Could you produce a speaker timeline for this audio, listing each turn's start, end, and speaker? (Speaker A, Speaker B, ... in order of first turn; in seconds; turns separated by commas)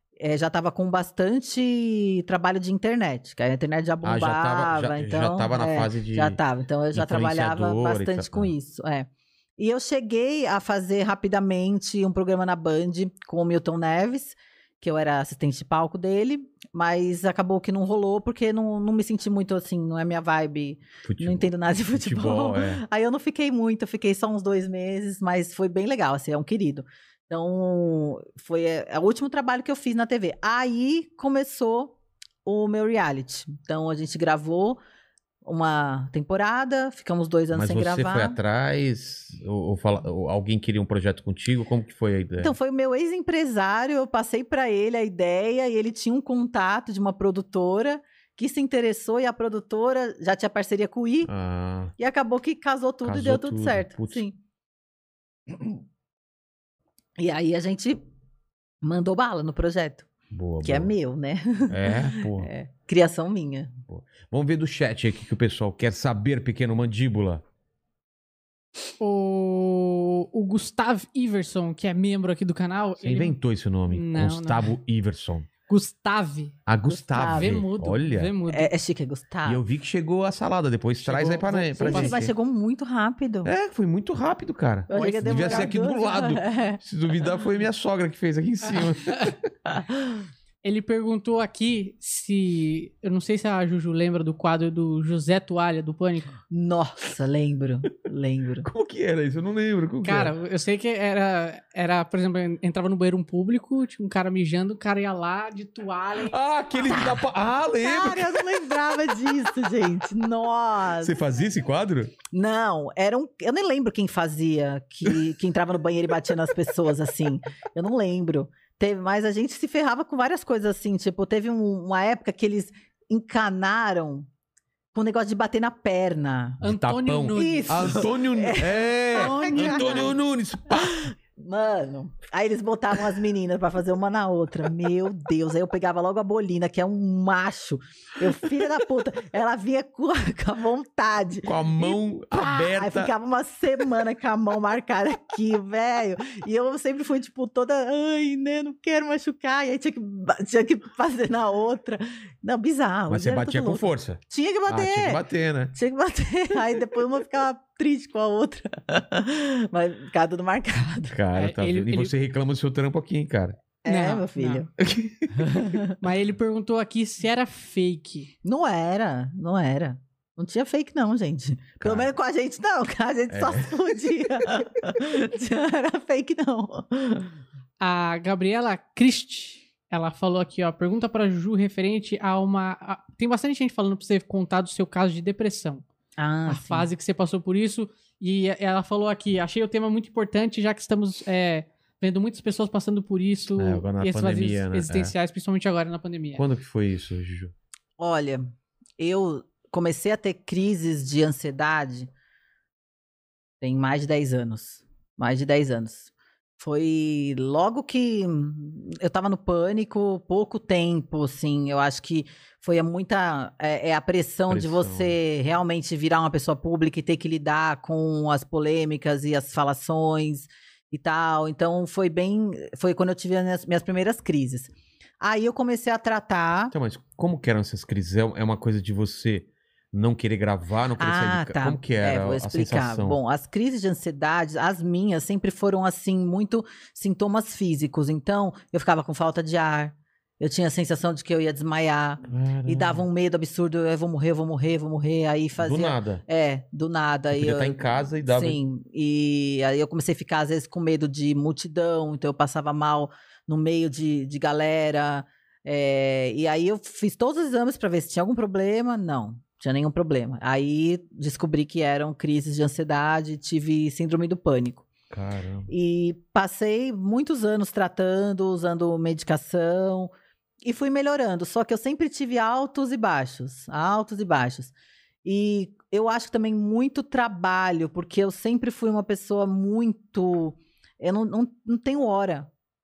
Speaker A: 0.2-34.8, Speaker B: 4.0-6.4, Speaker B: 6.9-8.5, Speaker B: 21.0-22.8, Speaker A: 35.4-38.4, Speaker B: 37.5-42.5, Speaker A: 42.4-51.3, Speaker B: 51.2-51.9, Speaker A: 52.0-54.4, Speaker B: 53.0-54.2, Speaker A: 57.2-58.0, Speaker A: 58.8-60.1, Speaker B: 60.3-60.9, Speaker A: 60.6-63.8, Speaker B: 61.7-62.5, Speaker B: 63.9-67.4, Speaker C: 69.0-73.3, Speaker B: 73.0-75.5, Speaker C: 73.9-74.7, Speaker C: 75.7-76.5, Speaker B: 76.7-78.3, Speaker A: 76.9-77.6, Speaker C: 77.1-78.7, Speaker A: 78.5-79.6, Speaker B: 79.4-82.3, Speaker C: 81.0-82.2, Speaker A: 81.8-83.5, Speaker B: 83.4-89.5, Speaker A: 84.9-86.8, Speaker C: 84.9-85.7, Speaker C: 88.7-89.3, Speaker C: 90.6-96.3, Speaker A: 96.5-98.7, Speaker B: 98.6-100.3, Speaker C: 100.0-106.3, Speaker B: 106.2-108.8, Speaker A: 106.8-107.2, Speaker A: 107.8-111.2, Speaker B: 111.0-112.1, Speaker A: 112.3-124.3, Speaker A: 124.9-126.6, Speaker B: 126.6-131.1, Speaker C: 126.6-128.1, Speaker A: 127.3-130.2, Speaker C: 129.1-130.2, Speaker A: 130.9-155.2, Speaker B: 141.4-143.1, Speaker B: 153.1-155.7, Speaker A: 155.7-161.2, Speaker B: 161.1-163.6, Speaker C: 161.3-162.1, Speaker A: 163.8-164.7, Speaker C: 163.8-164.7, Speaker B: 164.8-165.6, Speaker A: 165.5-165.9, Speaker C: 165.9-168.3, Speaker A: 168.4-177.3, Speaker B: 171.8-172.1, Speaker B: 173.3-174.5, Speaker C: 177.8-185.8, Speaker A: 186.2-186.9, Speaker C: 186.5-196.4, Speaker B: 193.6-195.1, Speaker B: 196.3-197.5, Speaker A: 198.0-202.1, Speaker A: 203.6-226.7, Speaker B: 214.5-215.2, Speaker B: 226.7-233.2, Speaker A: 231.0-264.9, Speaker B: 242.2-243.0, Speaker B: 245.6-246.2, Speaker B: 247.3-248.6, Speaker B: 265.1-265.7, Speaker A: 265.7-270.1, Speaker A: 270.6-274.7, Speaker A: 275.2-282.5